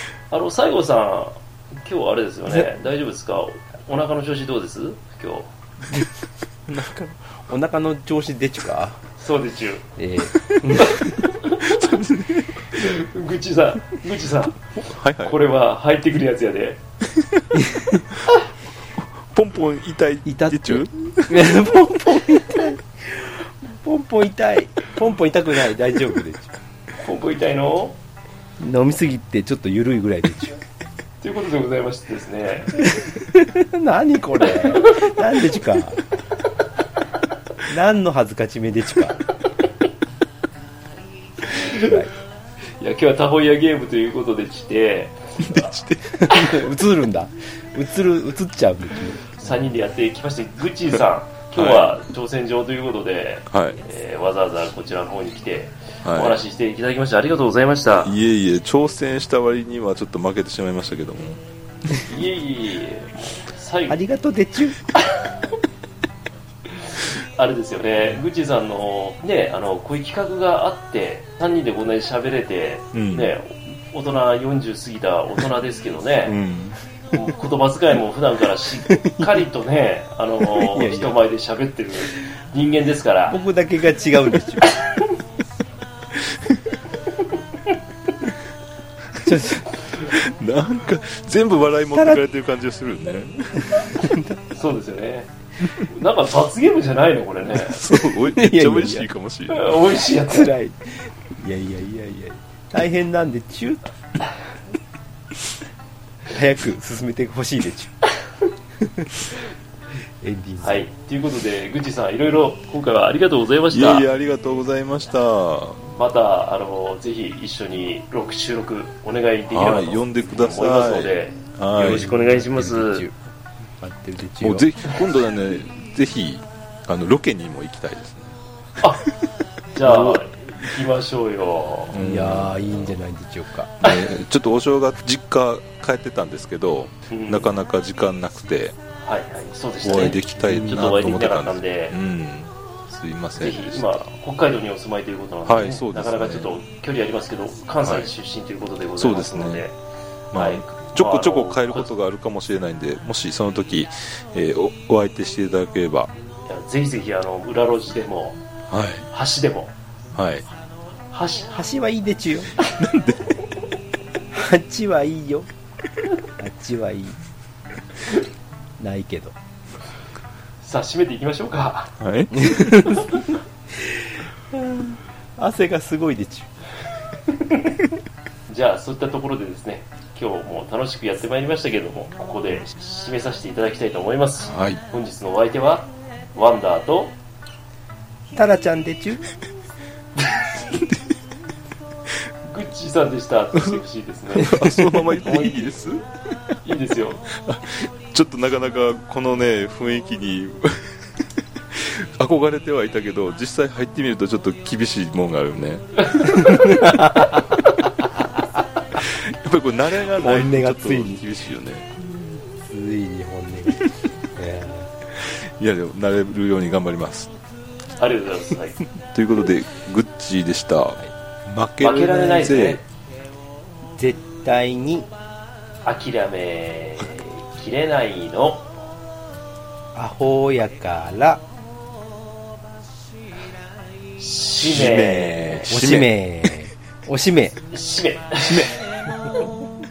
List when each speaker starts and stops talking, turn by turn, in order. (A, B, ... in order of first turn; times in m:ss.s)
0:00.3-0:05.5 A
0:06.7-0:09.0 B
0:09.2-0:09.8 A
0:10.0-0:11.1 B
0:10.8-0:11.6 A
0:11.6-0:12.8 C
0:12.7-0:14.7 A
0:14.8-0:15.4 C
0:15.2-0:16.8 A
0:17.5-0:18.0 B
0:19.3-0:21.5 C
0:20.2-0:26.5 B
0:27.0-0:28.0 A
0:28.6-0:30.6 B
0:31.2-0:32.8 A
0:32.8-0:36.0 B
0:34.7-0:35.0 A
0:37.6-0:39.2 B
0:41.4-0:41.9 A
0:41.6-0:42.1 B
0:42.8-0:45.7 A
0:45.4-0:46.6 C
0:46.2-0:49.2 B
0:49.4-0:58.1 A
0:51.5-0:52.0 C
0:53.5-0:53.8 C
0:56.0-0:56.4 C
0:58.0-1:02.0 C
1:02.0-1:04.0 A
1:03.9-1:04.8 B
1:07.2-1:16.4 A
1:12.9-1:13.3 C
1:16.2-1:16.8 C
1:17.1-1:23.4 A
1:18.9-1:19.4 B
1:20.5-1:21.1 B
1:23.3-1:24.7 B
1:29.2-1:29.9 B
1:30.0-1:34.0 C
1:31.9-1:32.2 B
1:33.9-1:34.4 B
1:34.5-1:37.8 A
1:37.6-1:39.8 C
1:37.9-1:39.1 B
1:39.5-1:40.5 A
1:40.2-1:43.9 B
1:46.3-1:47.9 B
1:48.8-1:49.2 B
1:50.2-1:50.9 B
1:50.6-1:54.1 A
1:53.7-1:55.8 C
1:55.8-2:03.0 A
1:59.5-2:02.1 C
2:01.9-2:03.2 B
2:03.8-2:04.6 B
2:04.4-2:08.3 C
2:08.8-2:09.1 A
2:09.7-2:12.0 A
2:11.9-2:12.9 C
2:12.0-2:13.8 B
2:13.8-2:18.7 C
2:17.1-2:17.5 A
2:19.0-2:21.9 A
2:19.8-2:24.1 C
2:23.4-2:29.7 A
2:25.4-2:26.5 C
2:29.0-2:29.6 C
2:30.3-2:36.1 C
2:30.3-2:31.9 A
2:36.4-2:38.4 A
2:38.7-2:39.1 C
2:39.1-2:39.7 A
2:40.1-2:40.4 C
2:41.1-2:41.5 A
2:41.5-2:42.5 B
2:42.7-2:43.3 C
2:44.3-2:45.5 B
2:46.4-2:47.2 B
2:48.8-2:49.4 B
2:50.6-2:51.9 A
2:52.0-2:52.9 C
2:52.4-2:53.0 B
2:53.0-2:53.2 A
2:53.8-2:56.5 B
2:58.5-3:07.2 A
3:04.5-3:04.8 C
3:08.3-3:09.2 B
3:12.4-3:15.7 A
3:13.5-3:13.8 C
3:14.3-3:16.0 C
3:16.6-3:17.3 A
3:17.4-3:21.0 C
3:21.7-3:26.5 C
3:26.3-3:28.6 B
3:29.0-3:31.9 C
3:30.2-3:31.2 B
3:32.5-3:34.9 B
3:35.2-3:37.3 C
3:38.0-3:38.8 A
3:39.1-3:42.8 C
3:41.8-3:42.8 A
3:44.0-3:45.1 B
3:45.8-3:48.7 A
3:49.9-3:51.4 B
3:54.2-3:55.5 A
3:54.6-3:56.2 C
3:55.4-3:57.6 B
3:57.7-3:58.7 A
3:58.4-3:59.3 C